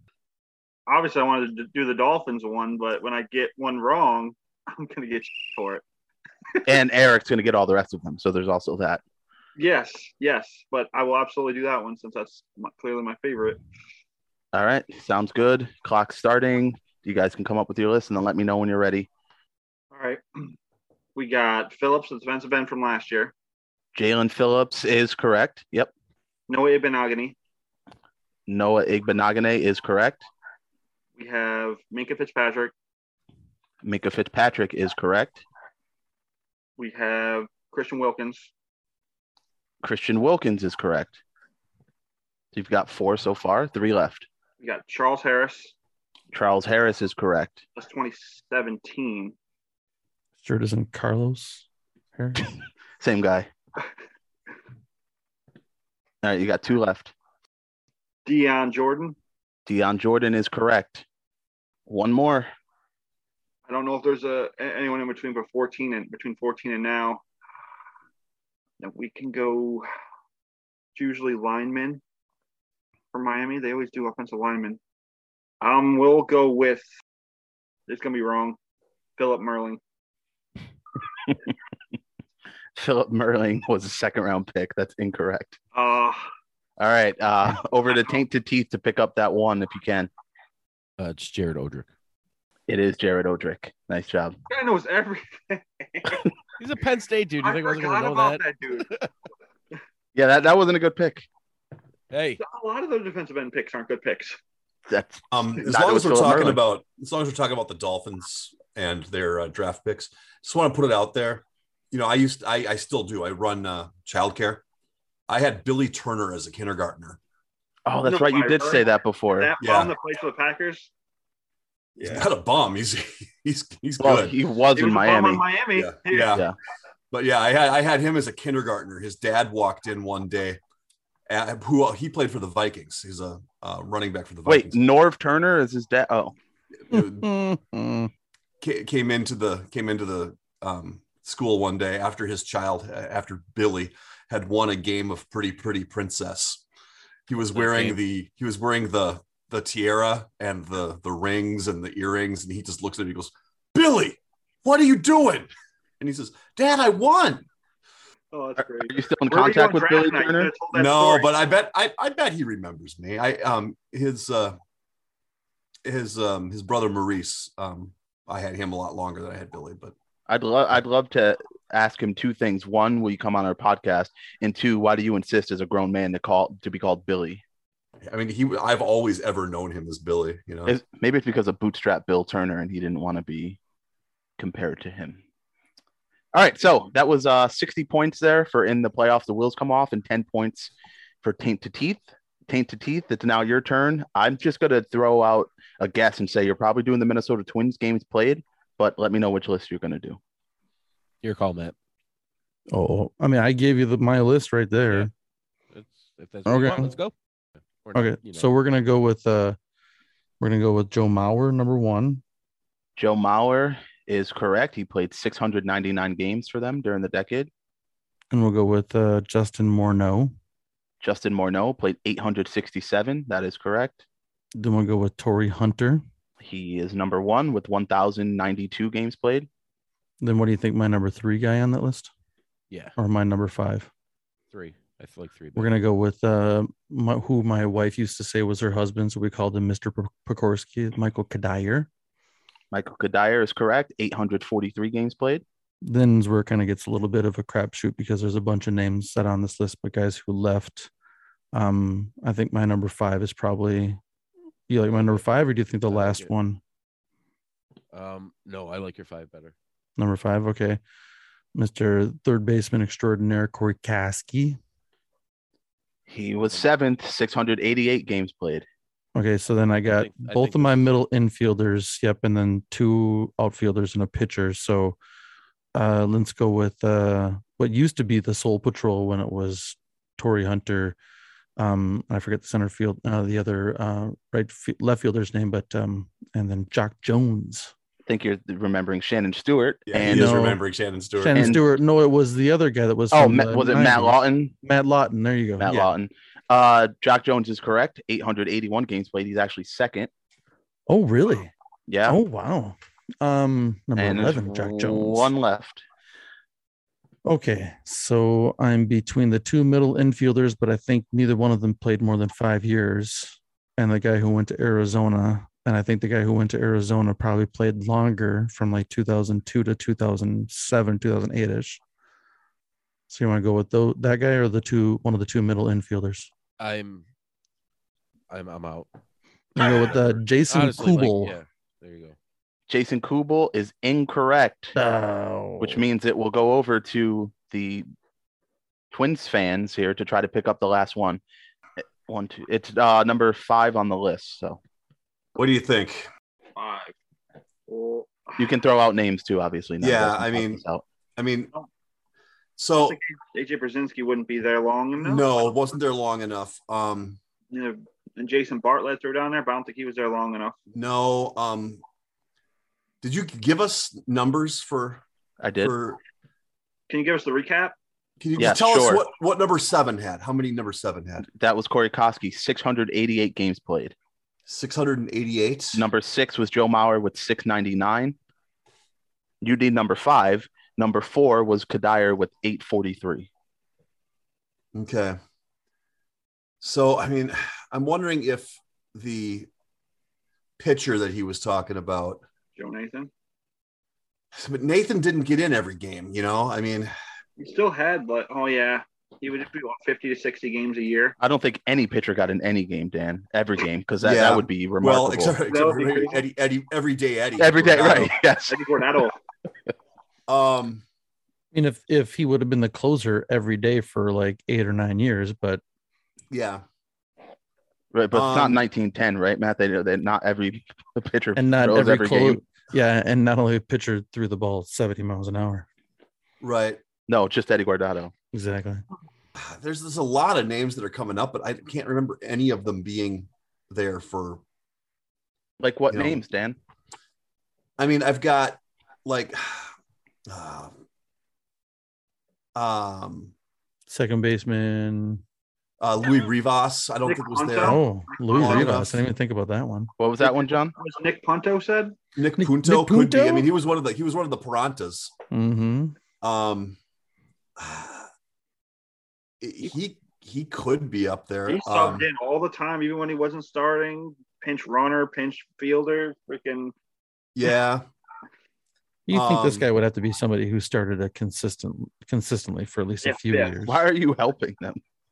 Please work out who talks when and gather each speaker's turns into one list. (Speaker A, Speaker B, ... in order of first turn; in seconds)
Speaker A: 0.9-5.8, 9.6-13.6, 19.9-20.5, 21.1-23.3, 26.5-27.4, 31.1-32.7, 36.8-38.5, 44.6-45.7, 47.8-49.3, 58.2-59.1, 63.6-67.2, 68.8-69.9, 70.9-72.0, 73.1-74.8, 75.6-76.8, 77.9-78.6, 79.2-79.8, 85.7-86.3, 94.5-96.3, 97.4-98.9, 102.4-104.4, 118.0-120.9, 122.0-122.3, 124.7-126.4, 158.3-161.3, 346.6-346.9, 347.7-348.5, 352.8-355.3, 357.5-360.6, 366.9-367.8, 392.6-393.1, 397.4-401.1, 405.4-406.2, 408.5-409.1, 447.0-448.7, 450.2-452.0, 461.5-466.7, 473.0-473.5
Speaker B: 6.7-9.0, 14.5-19.1, 23.9-25.9, 28.5-30.3, 33.8-35.4, 39.8-41.2, 42.5-44.3, 46.3-47.6, 53.0-53.5, 56.2-57.1, 59.6-61.0, 61.9-62.5, 82.8-85.6, 86.8-90.1, 92.7-94.4, 100.1-101.3, 104.9-106.6, 117.8-119.5, 124.0-125.5, 126.3-126.5, 134.5-136.3, 158.8-160.5, 170.3-177.4, 180.7-183.6, 184.4-185.2, 186.3-190.7, 191.2-200.2, 213.0-217.5, 221.0-224.0, 226.4-229.5, 242.7-245.4, 266.1-268.6, 288.1-290.4, 291.3-291.6, 293.1-294.5, 295.6-300.1, 301.9-302.2, 304.0-305.8, 332.7-334.7, 335.6-337.9, 338.9-341.2, 342.1-344.6, 348.4-350.8, 365.4-365.7, 368.4-369.0, 371.3-373.9, 375.7-378.1, 379.4-383.3, 401.2-405.4, 407.4-408.8, 417.9-422.4, 427.1-428.1, 435.6-436.6, 450.0-450.7, 473.6-474.8
Speaker C: 50.4-52.5, 136.9-138.1, 202.7-205.1, 206.4-206.9, 207.9-209.6, 210.4-212.2, 218.3-220.3, 224.5-226.0, 230.2-232.1, 233.0-233.9, 235.6-241.9, 245.8-250.9, 251.5-254.0, 254.7-256.6, 260.0-260.8, 261.5-264.6, 269.1-275.0, 275.7-280.9, 281.6-287.7, 290.0-290.6, 291.2-295.9, 300.9-301.5, 302.1-305.3, 307.2-321.8, 323.1-326.3, 329.6-331.3, 334.7-335.8, 411.5-415.6, 421.4-425.6, 428.3-428.8, 443.9-445.2, 447.6-449.9, 452.4-453.5, 455.3-455.9, 469.1-473.8
Speaker D: 91.0-91.9, 96.6-99.1, 102.1-102.4, 147.5-148.0, 201.2-201.7, 205.7-207.1, 207.8-208.5, 234.5-235.7, 254.9-255.2, 255.9-256.3, 257.9-259.5, 269.8-270.9, 326.6-327.0, 328.3-328.9, 329.7-330.0, 330.5-332.1
Speaker E: 105.3-114.6, 115.3-117.2, 119.6-119.9, 122.0-124.3, 125.7-126.4, 127.1-130.6, 131.3-134.8, 136.9-137.3, 138.6-146.6, 147.3-157.5, 160.7-164.6, 165.8-169.9, 178.0-180.8, 289.9-291.6, 345.4-346.1, 349.8-350.6, 351.2-351.5, 352.6-353.0, 355.0-357.2, 360.7-361.8, 363.0-365.0, 365.6-366.0, 368.2-371.3, 374.4-375.8, 384.7-385.2, 386.6-389.5, 390.6-392.2, 394.3-396.9, 404.0-408.2, 410.3-410.8, 416.3-416.6, 418.1-418.6, 426.4-426.8, 429.3-434.4, 435.9-436.2, 437.8-439.7, 440.3-440.7, 442.5-443.3, 445.8-447.8, 448.3-449.0, 452.1-455.1, 456.2-456.8, 457.6-458.1, 459.4-462.1, 467.3-467.8, 469.1-469.7